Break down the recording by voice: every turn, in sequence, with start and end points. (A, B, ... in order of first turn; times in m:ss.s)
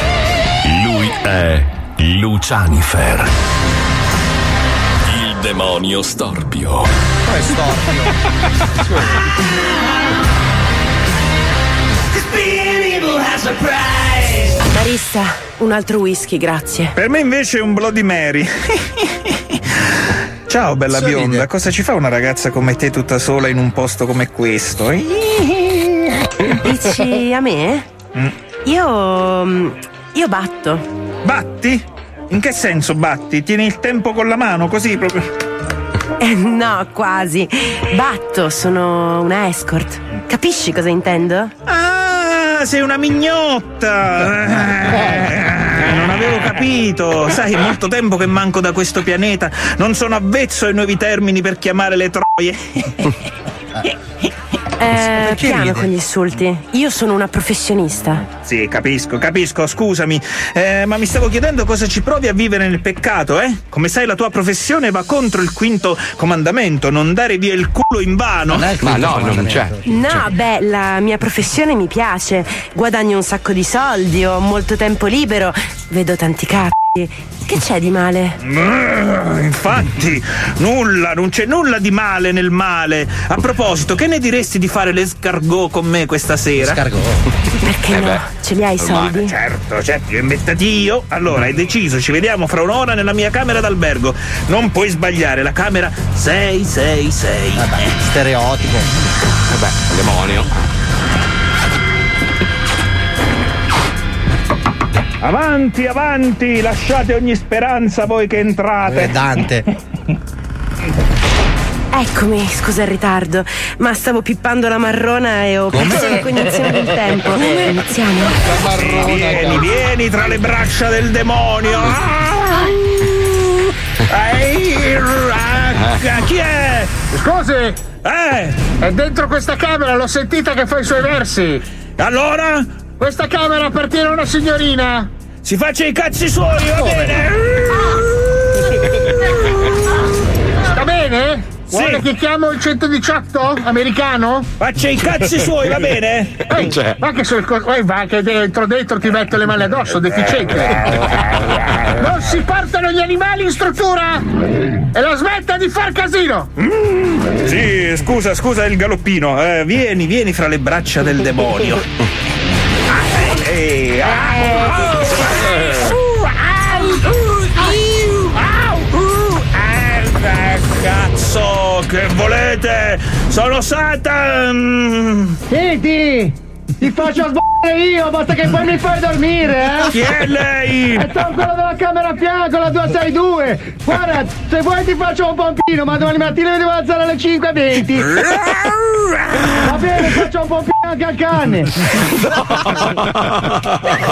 0:00.6-0:03.3 A
0:05.1-0:06.9 A
0:07.2-0:08.1 B
0:14.7-0:16.9 C
0:17.0-0:19.8 D
0:20.5-0:26.0 D
0:20.9-0:21.4 B
0:26.5-0:27.9 C
0:28.7-0:30.8 C
0:31.2-0:35.3 D
0:36.2-0:41.5 C
0:41.7-0:53.1 D
0:54.8-0:58.2 C
0:55.0-0:55.9 B
0:58.3-1:08.7 D
1:08.5-1:10.0 B
1:08.8-1:10.2 E
1:09.8-1:18.4 C
1:18.4-1:26.8 D
1:26.6-1:27.2 B
1:27.6-1:29.3 C
1:27.9-1:28.2 E
1:28.8-1:29.3 E
1:29.2-1:37.9 D
1:37.6-1:38.9 B
1:39.5-1:40.5 E
1:45.2-1:49.5 D
1:48.9-1:49.6 B
1:51.9-1:58.5 C
1:55.7-1:56.1 B
1:55.9-1:56.2 F
1:58.3-1:59.7 F
1:58.7-2:07.0 D
2:07.1-2:07.8 F
2:08.0-2:08.8 D
2:08.8-2:11.6 F
2:12.0-2:12.8 D
2:13.0-2:15.1 F
2:15.4-2:18.6 D
2:16.8-2:17.1 F
2:20.7-2:24.5 F
2:21.7-2:22.1 D
2:24.6-2:26.5 D
2:26.5-2:31.0 F
2:26.6-2:27.0 E
2:30.1-2:32.1 D
2:32.0-2:34.2 F
2:34.9-2:36.5 F
2:36.6-2:41.9 D
2:42.9-2:55.4 D
2:55.5-3:00.0 B
2:59.8-3:01.2 D
3:01.0-3:08.1 B
3:08.2-3:09.7 D
3:09.6-3:11.7 B